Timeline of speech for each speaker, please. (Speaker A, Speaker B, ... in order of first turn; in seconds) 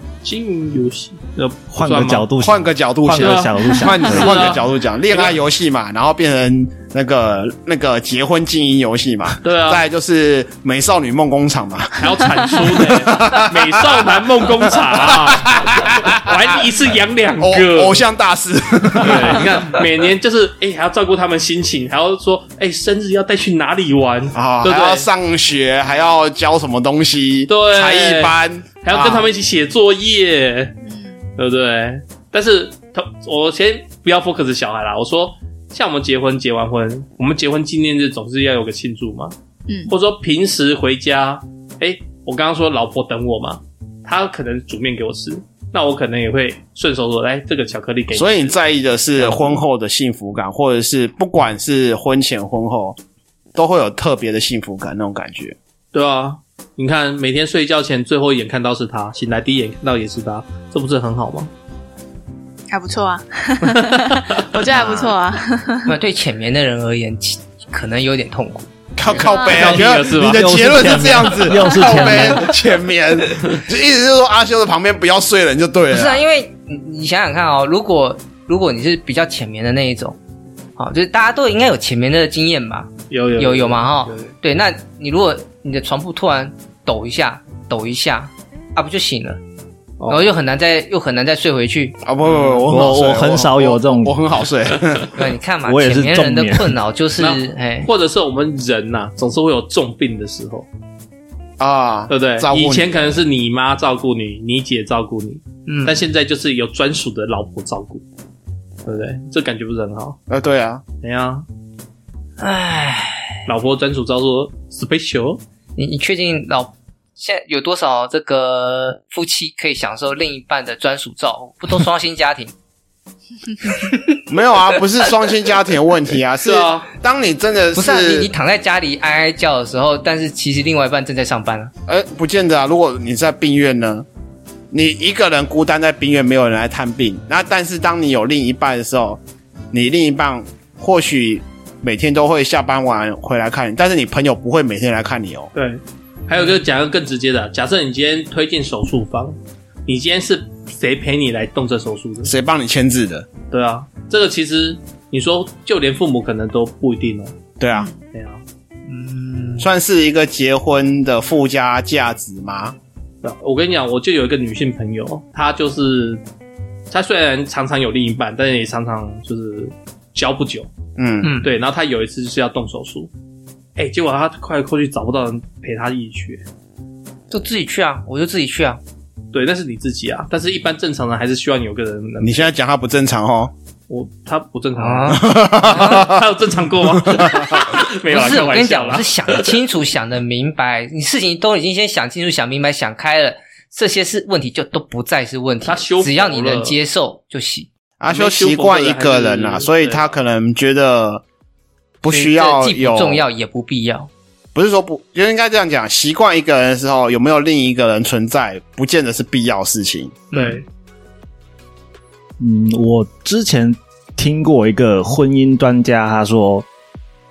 Speaker A: 0.2-2.3, 3.2-5.4, 9.4-9.8, 12.0-18.0, 19.0-25.1, 27.5-30.8, 31.4-39.3, 39.9-48.5, 49.2-49.6, 55.9-61.5, 63.7-64.4, 69.5-71.6, 83.1-84.3, 90.0-90.2, 92.3-92.6, 97.2-100.7, 102.1-108.0, 108.9-110.2, 111.0-111.5, 113.5-115.4, 126.4-126.9, 145.6-152.3, 153.5-157.3, 158.1-158.4, 163.2-166.2, 166.9-170.7, 171.4-173.1, 173.8-176.4, 179.3-182.5, 183.9-189.6, 195.7-196.8, 198.1-200.1, 210.3-210.6
Speaker B: 1.7-4.6, 69.6-72.5, 92.7-94.2, 95.7-96.8, 212.4-216.7
Speaker C: 2.4-16.5, 17.4-19.7, 24.3-29.3, 48.1-53.0, 53.5-55.6, 69.0-76.2, 92.0-95.1, 101.6-102.9, 110.3-110.8, 124.3-128.3, 131.9-134.1, 134.7-139.2, 139.7-145.5, 152.2-153.3, 157.6-157.9, 159.6-162.8, 171.0-171.3, 182.2-183.5, 185.1-186.2, 186.9-187.7, 198.0-201.2, 202.0-203.2, 204.6-210.2
Speaker D: 30.8-31.3, 39.7-39.9, 62.7-65.9, 69.2-69.7
Speaker E: 64.7-65.1, 65.9-68.7, 75.9-80.2, 80.8-89.4, 90.1-92.0, 95.2-97.9, 105.7-106.0, 112.4-113.4, 115.8-122.5, 123.6-124.2, 127.7-131.7, 158.9-159.7, 171.2-171.5, 177.3-178.8, 184.8-186.1, 188.1-197.7, 202.1-204.1, 210.3-210.6